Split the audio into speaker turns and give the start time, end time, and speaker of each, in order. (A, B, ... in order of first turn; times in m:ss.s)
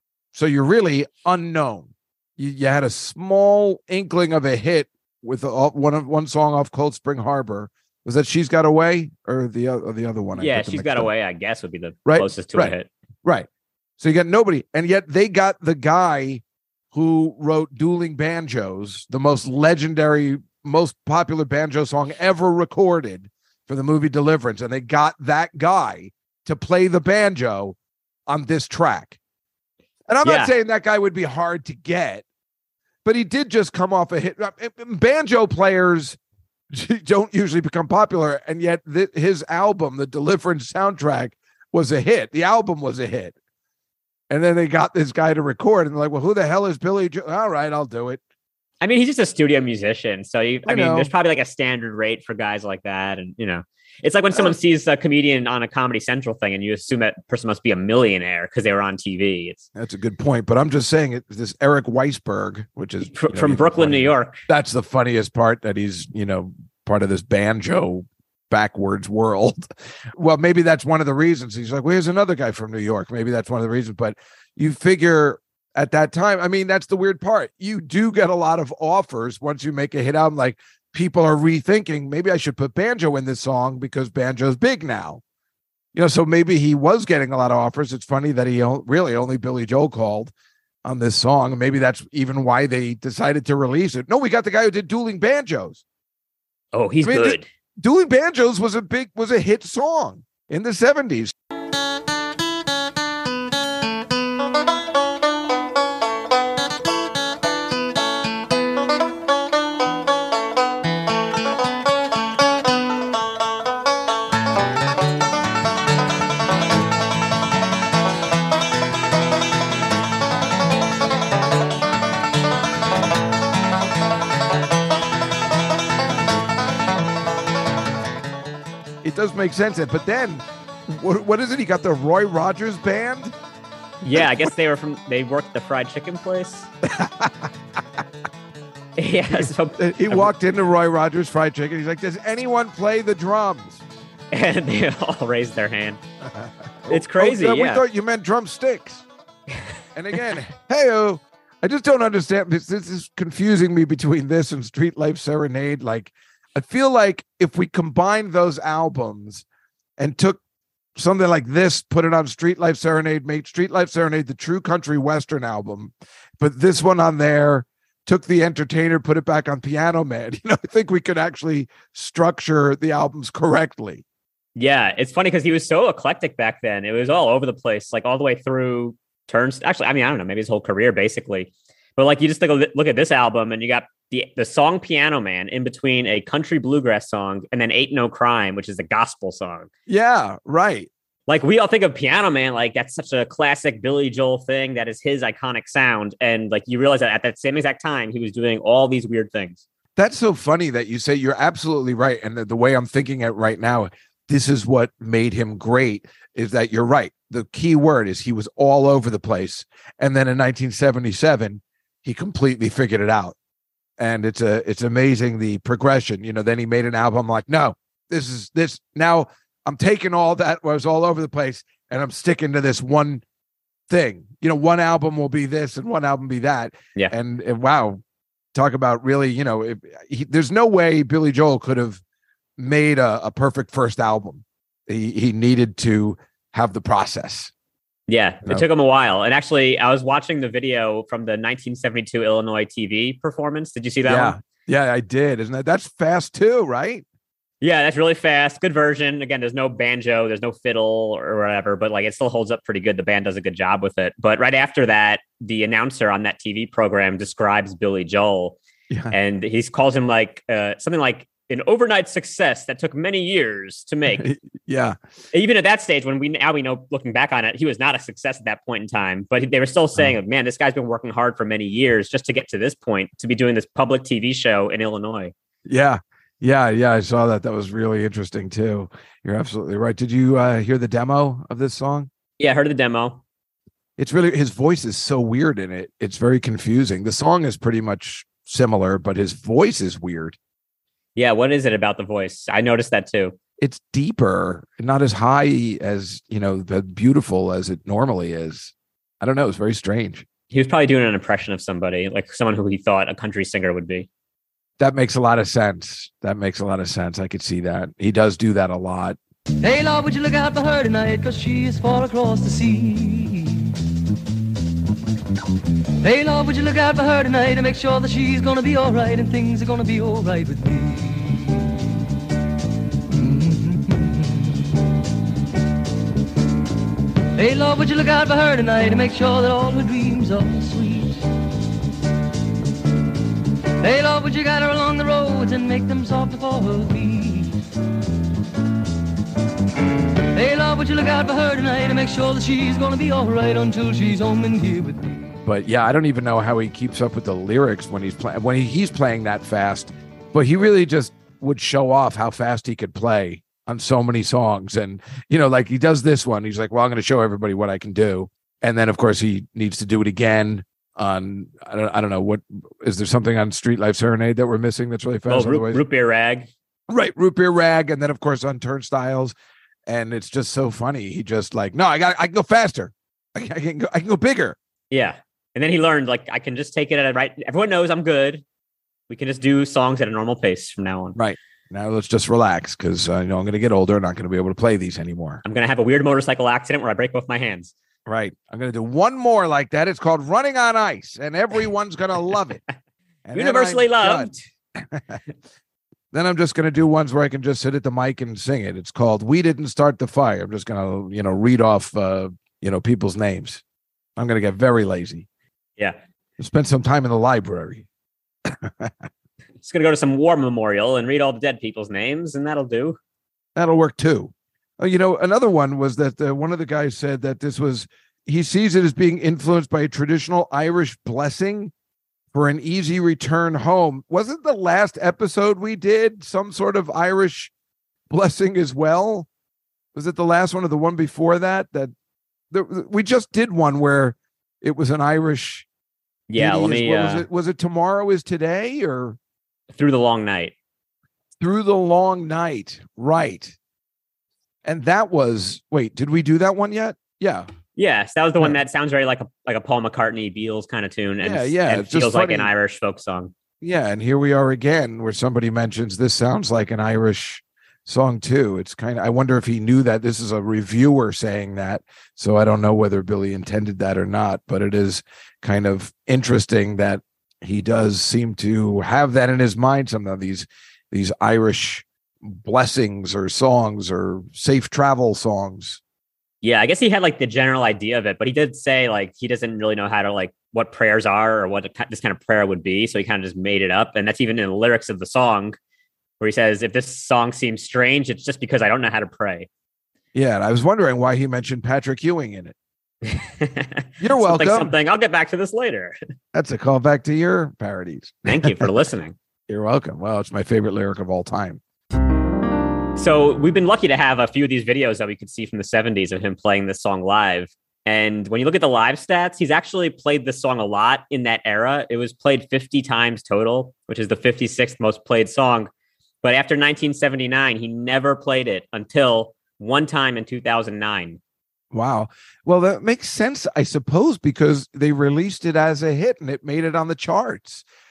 0:00.3-0:11.1 A
0:10.4-0:12.9 B
0:12.0-0:13.5 A
0:14.0-0:27.8 A
0:28.3-0:29.2 A
0:30.1-0:32.2 A
0:30.2-0:30.5 B
0:33.0-0:36.2 A
0:36.7-0:43.4 A
0:44.3-0:48.2 A
0:48.8-0:59.6 B
0:50.6-0:51.1 A
0:59.8-1:25.2 A
1:03.0-1:04.4 B
1:25.9-1:30.3 A
1:30.8-1:35.8 A
1:36.7-1:37.5 B
1:37.0-1:41.3 A
2:09.0-2:13.3 A
2:14.0-2:16.7 B
2:14.1-2:14.5 A
2:16.8-2:17.5 A
2:19.0-2:20.3 B
2:19.3-2:23.8 A
2:24.3-2:26.0 B
2:26.2-2:29.0 A
2:26.9-2:27.8 B
2:30.0-2:39.4 A
2:40.0-2:40.4 A
2:41.0-2:54.0 A
2:54.6-3:09.7 B
3:09.9-3:10.9 A
3:11.3-3:19.6 B
3:20.0-3:33.4 A
3:34.0-3:43.2 A
3:43.9-3:48.0 A
3:48.5-3:52.0 A
3:52.6-3:57.5 A
3:58.1-4:04.4 B
4:04.0-4:07.0 A
4:07.6-4:18.6 B
4:18.9-4:19.2 A
4:19.1-4:24.2 B
4:24.1-4:25.0 A
4:25.3-4:35.3 B
4:35.7-4:42.1 A
4:42.4-4:43.2 B
4:44.0-4:50.4 A
4:51.2-4:53.4 B
4:53.6-5:00.2 A
5:00.5-5:04.1 B
5:04.8-5:09.2 A
5:09.6-5:13.7 C
5:16.0-5:21.7 C
5:23.1-5:24.4 C
5:27.4-5:31.2 C
5:33.8-5:37.5 C
5:40.3-5:45.3 C
5:45.4-6:05.8 A
6:05.3-6:06.5 B
6:06.9-6:09.3 A
6:09.8-6:14.6 A
6:14.9-6:18.4 B
6:19.1-6:21.2 B
6:21.1-6:25.4 A
6:25.4-6:27.7 B
6:28.0-6:32.6 A
6:33.2-6:35.2 A
6:33.3-6:34.4 B
6:36.1-6:43.6 A
6:44.2-6:45.2 A
6:46.4-6:47.9 A
6:48.5-6:48.9 A
6:49.6-6:53.0 B
6:53.6-7:01.7 A
7:02.3-7:07.5 A
7:08.1-7:09.3 A
7:10.0-7:11.9 A
7:12.5-7:15.7 A
7:16.3-7:17.2 B
7:16.4-7:19.2 A
7:19.7-7:20.5 B
7:21.4-7:23.6 A
7:24.6-7:27.5 A
7:27.8-7:33.3 B
7:31.2-7:32.5 A
7:33.6-7:55.8 A
7:56.4-8:05.6 B
8:06.2-8:09.5 B
8:10.1-8:12.6 A
8:13.0-8:16.0 B
8:14.0-8:14.7 A
8:16.3-8:18.7 A
8:18.2-8:19.1 B
8:19.5-8:21.6 A
8:23.0-8:35.7 B
8:36.2-8:41.2 B
8:41.7-8:47.6 A